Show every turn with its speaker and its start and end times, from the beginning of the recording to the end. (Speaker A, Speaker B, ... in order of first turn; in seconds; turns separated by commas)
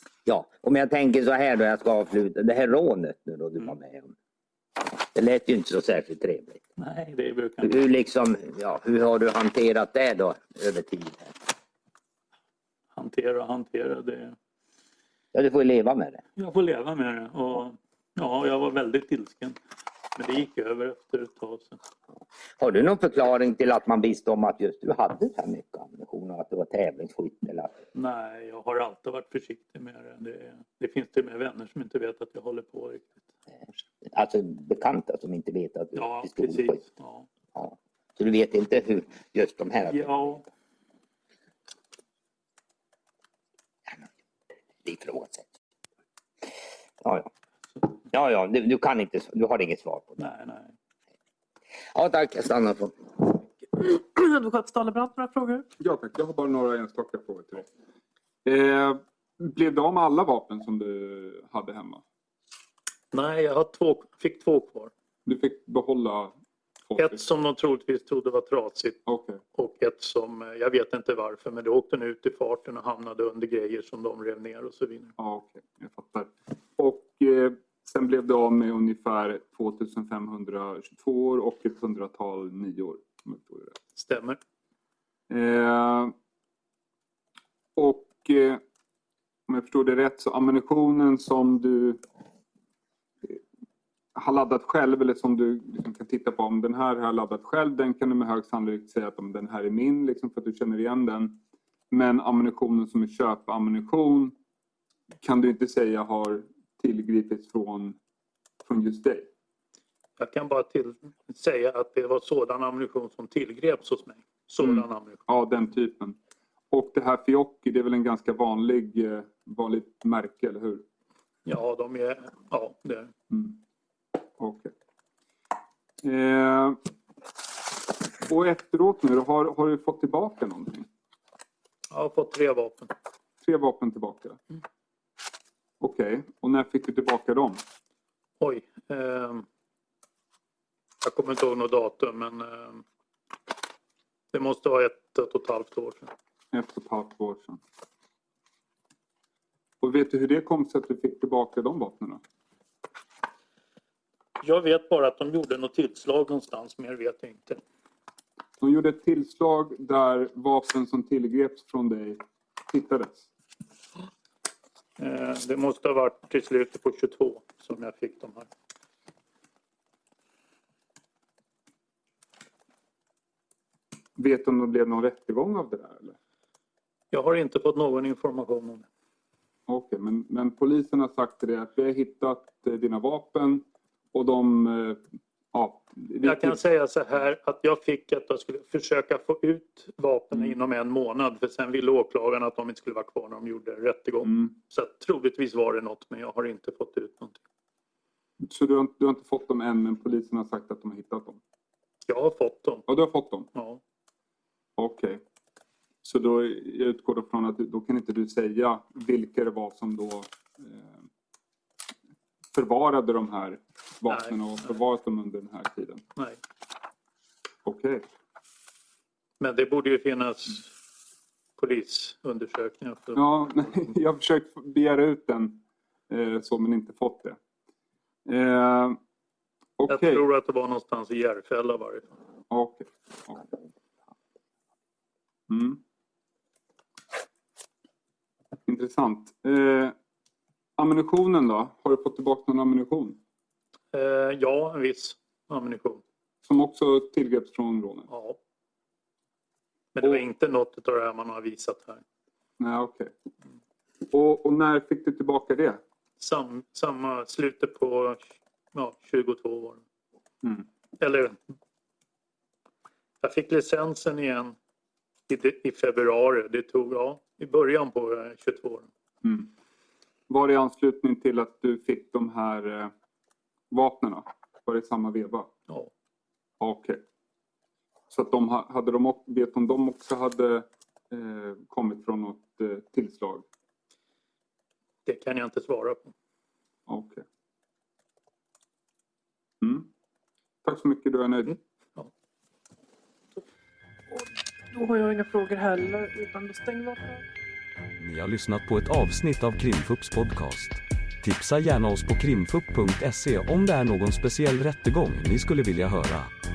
Speaker A: 0.2-4.1, Speaker A: 5.0-6.6, Speaker B: 6.8-7.9, Speaker A: 7.6-11.3, Speaker B: 12.9-14.3, Speaker A: 15.3-16.2, Speaker B: 16.4-19.6, Speaker B: 20.1-21.8, Speaker A: 22.6-27.8, Speaker B: 27.9-33.3, Speaker A: 34.1-36.8, Speaker B: 35.9-37.3, Speaker A: 37.5-40.3, Speaker B: 39.9-40.4, Speaker A: 44.8-45.5, Speaker A: 47.0-47.3, Speaker A: 48.1-50.2, Speaker B: 50.2-50.7, Speaker A: 51.9-53.2, Speaker C: 53.7-55.6, Speaker D: 55.8-57.7, Speaker D: 58.4-62.0, Speaker B: 63.1-64.9, Speaker D: 65.2-66.3, Speaker D: 66.9-67.2, Speaker B: 67.0-75.1, Speaker D: 69.1-69.4, Speaker D: 75.2-83.7, Speaker B: 83.9-84.4, Speaker D: 85.3-86.1, Speaker D: 87.8-88.6, Speaker D: 89.5-92.0, Speaker D: 94.1-101.4, Speaker D: 101.9-104.3, Speaker D: 105.2-108.0, Speaker D: 108.6-109.3, Speaker B: 110.2-115.2, Speaker D: 114.6-116.2, Speaker D: 116.7-120.8, Speaker B: 121.5-123.1, Speaker D: 123.3-123.6, Speaker D: 124.4-124.7, Speaker D: 126.0-126.8, Speaker D: 128.3-130.8, Speaker B: 131.9-132.9, Speaker D: 133.4-134.4, Speaker D: 135.8-137.6, Speaker B: 138.4-139.4, Speaker B: 141.0-142.8, Speaker B: 144.3-146.1, Speaker D: 146.5-147.6, Speaker D: 149.8-152.2, Speaker B: 154.4-157.6, Speaker D: 158.6-163.3, Speaker B: 165.0-168.5, Speaker D: 174.2-176.2, Speaker B: 177.1-178.8, Speaker D: 179.7-186.6, Speaker B: 186.2-197.4, Speaker D: 198.4-201.4, Speaker B: 202.1-202.9, Speaker D: 202.9-203.5, Speaker B: 203.5-203.8, Speaker D: 204.8-205.2, Speaker D: 206.0-211.0, Speaker D: 212.5-216.0, Speaker B: 214.1-214.8, Speaker D: 217.6-218.0, Speaker B: 219.4-220.7, Speaker B: 221.6-223.7, Speaker D: 223.2-227.4, Speaker D: 228.2-229.0, Speaker D: 229.8-230.2, Speaker B: 229.9-232.1, Speaker D: 232.5-233.4, Speaker D: 235.5-235.8, Speaker D: 238.7-239.9, Speaker D: 240.8-243.2, Speaker B: 243.9-246.0, Speaker D: 246.4-248.1, Speaker B: 248.1-248.4, Speaker B: 249.9-252.0, Speaker D: 252.6-253.1, Speaker D: 254.1-255.8, Speaker B: 256.2-259.8, Speaker B: 261.0-261.4, Speaker B: 263.2-264.5, Speaker B: 265.3-268.9, Speaker D: 269.2-269.5, Speaker D: 270.3-272.9, Speaker D: 273.7-275.5, Speaker D: 276.6-277.0, Speaker D: 278.1-283.4, Speaker B: 285.0-286.1, Speaker D: 286.9-287.2, Speaker D: 289.6-289.9, Speaker D: 290.6-291.6, Speaker C: 294.7-297.2, Speaker E: 298.0-306.3